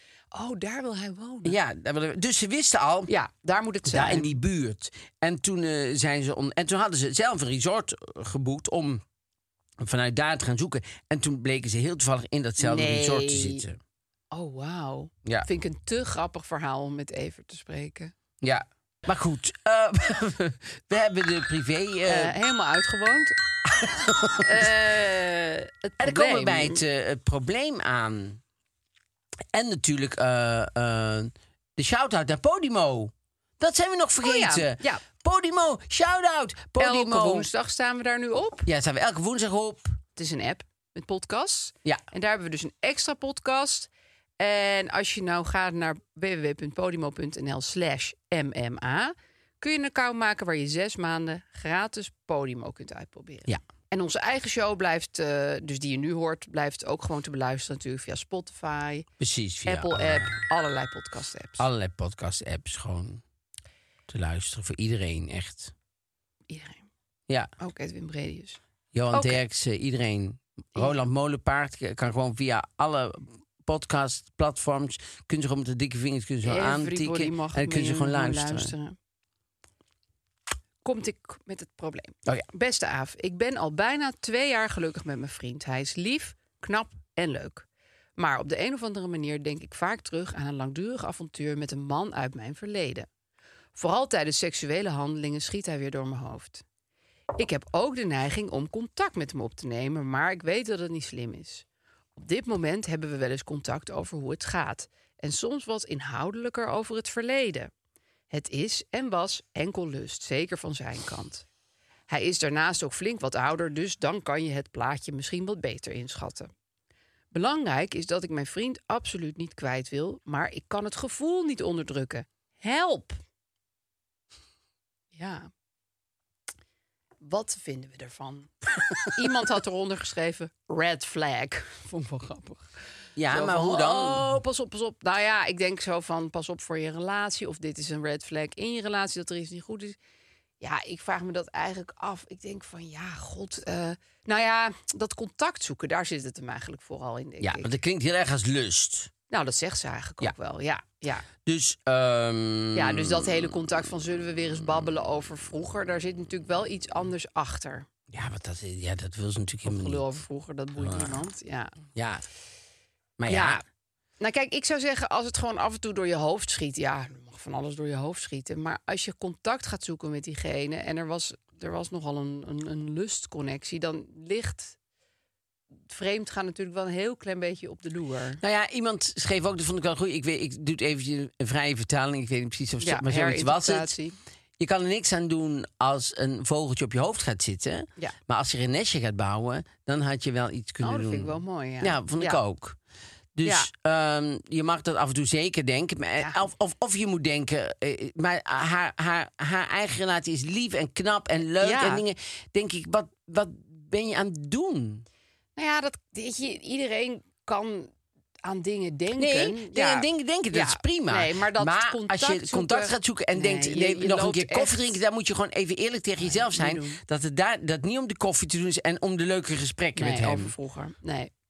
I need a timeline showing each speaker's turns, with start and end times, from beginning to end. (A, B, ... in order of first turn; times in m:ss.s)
0:00.3-0:01.6 A
0:01.4-0:03.1 B
0:03.1-0:04.3 A
0:03.9-0:09.0 B
0:09.8-0:13.8 B
0:12.6-0:13.6 A
0:14.3-0:18.1 A
0:18.4-0:22.4 B
0:22.1-0:23.3 A
0:23.7-0:24.7 B
0:24.4-0:26.8 A
0:26.0-0:28.4 B
0:29.5-0:37.5 B
0:34.2-0:35.0 A
0:36.8-0:38.7 A
0:38.7-0:40.0 B
0:40.2-0:59.1 A
0:59.2-1:00.4 B
0:59.7-1:01.6 A
1:01.6-1:03.2 B
1:04.1-1:05.7 B
1:06.5-1:06.8 A
1:07.6-1:08.6 A
1:08.9-1:18.7 B
1:09.1-1:09.4 A
1:16.4-1:19.0 A
1:20.8-1:27.7 A
1:28.2-1:33.1 A
1:33.8-1:36.6 A
1:37.4-1:41.6 A
1:42.2-1:47.7 A
1:48.3-1:51.4 A
1:52.1-1:56.5 A
1:57.3-2:03.2 A
2:05.1-2:05.5 A
2:07.2-2:08.5 A
2:09.1-2:12.7 A
2:13.2-2:14.4 B
2:13.3-2:20.0 A
2:20.6-2:27.7 A
2:27.4-2:29.1 B
2:29.3-2:31.3 A
2:31.4-2:33.6 B
2:32.8-2:37.9 A
2:38.1-2:40.1 B
2:39.6-2:41.8 A
2:40.8-2:41.2 B
2:41.9-2:42.2 B
2:43.2-2:43.6 B
2:43.3-2:43.6 A
2:44.2-2:54.8 A
2:55.9-2:58.4 A
2:58.4-3:03.9 B
3:02.8-3:04.2 A
3:04.6-3:12.8 B
3:10.8-3:12.4 A
3:13.4-3:25.0 B
3:21.6-3:22.0 A
3:25.6-3:27.9 A
3:28.4-3:35.0 A
3:29.2-3:40.5 B
3:36.2-3:37.0 A
3:40.0-3:41.3 A